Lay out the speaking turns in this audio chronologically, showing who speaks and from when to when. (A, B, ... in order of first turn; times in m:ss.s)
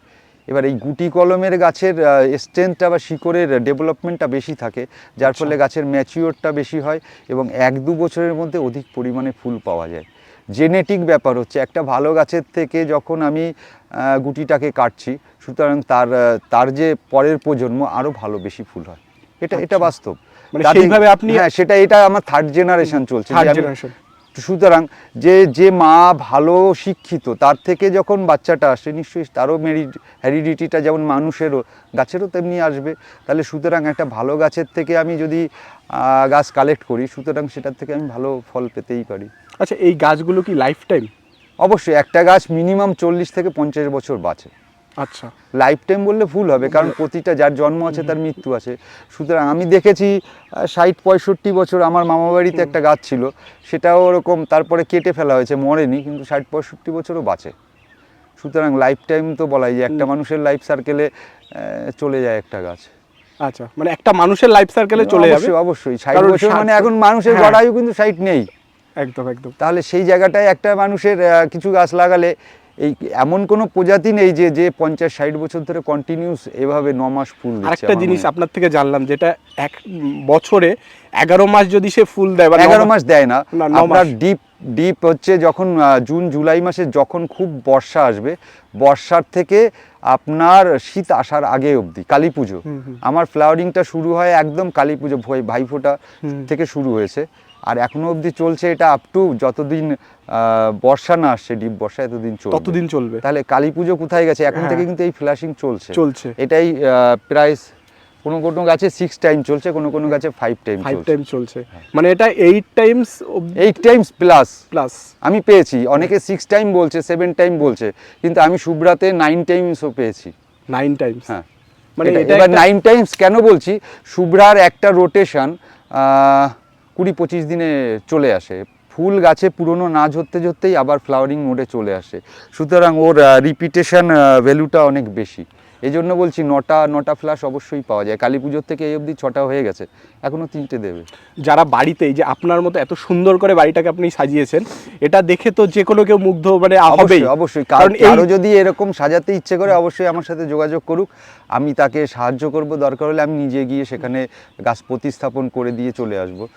0:00.5-0:23.7 A
0:05.2-0:05.5 B
0:19.5-0:19.9 B
0:20.5-0:21.5 B
0:23.3-0:23.9 B
0:24.4-0:39.3 A
0:39.6-0:41.1 B
0:41.6-0:44.5 A
0:45.0-0:45.3 B
0:45.5-0:57.5 A
0:58.4-1:02.9 A
1:03.4-1:05.5 B
1:05.0-1:08.5 A
1:06.1-1:07.6 B
1:09.0-1:09.5 B
1:09.6-1:18.3 A
1:17.6-1:22.9 B
1:22.5-1:47.6 A
1:23.5-1:24.1 B
1:32.7-1:33.0 B
1:42.5-1:43.2 B
1:44.5-1:44.8 B
1:45.9-1:46.3 B
1:48.2-1:51.1 A
1:50.8-1:53.7 B
1:53.6-1:54.6 A
1:54.7-1:55.1 B
1:55.2-2:00.3 A
2:00.7-2:01.3 B
2:02.0-2:02.6 B
2:02.0-2:21.1 A
2:21.4-2:28.3 B
2:26.9-2:36.5 A